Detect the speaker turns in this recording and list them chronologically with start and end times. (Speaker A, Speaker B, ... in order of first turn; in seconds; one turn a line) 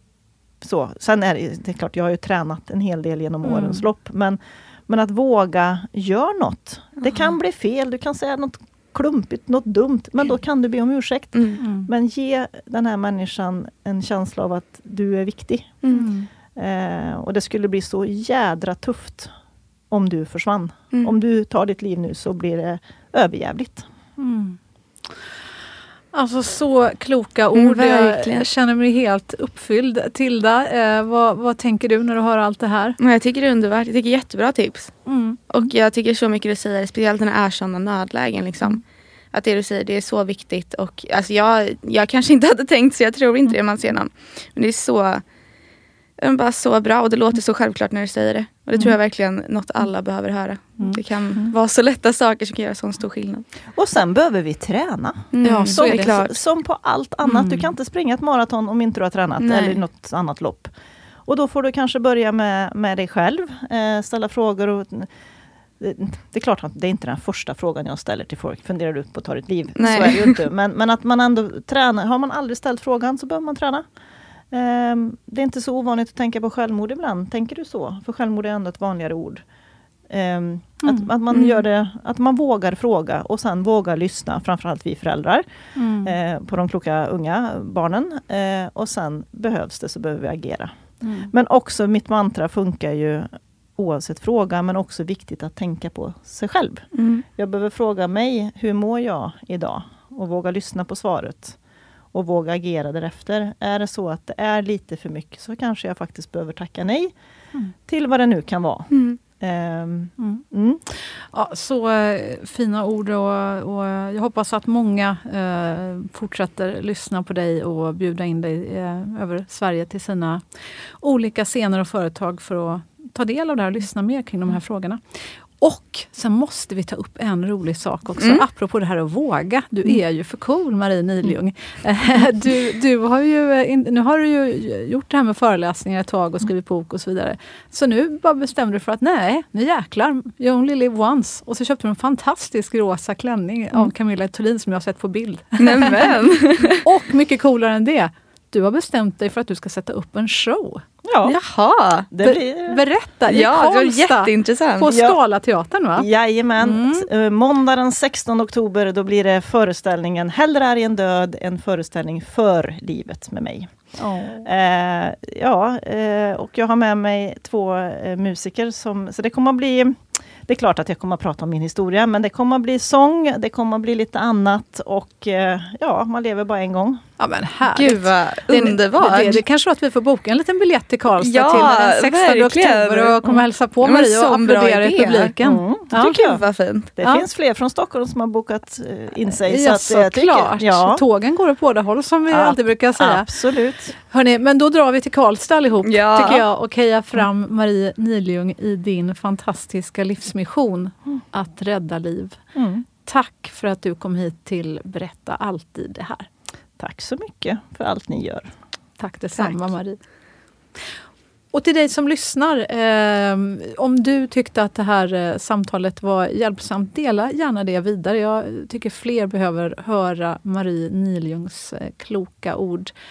Speaker A: 0.6-15.9
Speaker B: 3.4-3.9
Speaker C: 11.3-11.6
Speaker B: 11.6-11.9
Speaker B: 15.9-16.3
Speaker A: 16.6-19.3
Speaker A: 19.9-23.9
Speaker B: 24.2-24.6
Speaker B: 26.1-33.0
Speaker C: 27.5-28.5
Speaker C: 33.0-38.8
Speaker B: 35.1-35.4
Speaker C: 39.3-45.3
Speaker C: 46.2-53.5
Speaker B: 50.8-51.5
Speaker A: 53.7-60.7
Speaker C: 55.3-56.4
Speaker B: 55.4-56.2
Speaker B: 57.2-57.7
Speaker C: 59.4-59.8
Speaker A: 61.3-65.1
Speaker A: 65.8-73.9
Speaker C: 69.8-70.4
Speaker A: 74.5-79.4
Speaker A: 80.1-85.5
Speaker B: 80.8-81.1
Speaker C: 81.3-81.6
Speaker B: 85.8-86.1
Speaker A: 86.0-90.7
Speaker B: 91.0-91.3
Speaker A: 91.3-101.6
Speaker C: 96.9-97.2
Speaker A: 102.1-107.1
Speaker A: 107.9-110.8
Speaker C: 108.9-109.2
Speaker B: 110.2-150.8
Speaker C: 128.2-128.4
Speaker C: 145.6-146.8
Speaker A: 151.0-151.4
Speaker C: 151.2-152.1
Speaker A: 152.1-152.8
Speaker B: 152.2-156.1
Speaker C: 153.3-154.9
Speaker A: 154.9-155.2
Speaker A: 156.0-163.8
Speaker B: 156.6-157.1
Speaker B: 164.0-164.5
Speaker A: 164.4-177.0
Speaker B: 177.2-186.3
Speaker C: 177.7-179.4
Speaker C: 181.2-183.3
Speaker C: 183.8-185.3
Speaker A: 185.4-186.3
Speaker C: 185.9-186.9
Speaker A: 187.0-191.0
Speaker B: 187.0-187.3
Speaker B: 189.3-193.4
Speaker A: 192.3-193.9
Speaker B: 194.0-202.4
Speaker C: 195.8-196.5
Speaker A: 202.6-202.8
Speaker B: 203.0-206.3
Speaker A: 206.8-208.5
Speaker B: 209.0-210.0
Speaker B: 211.5-222.9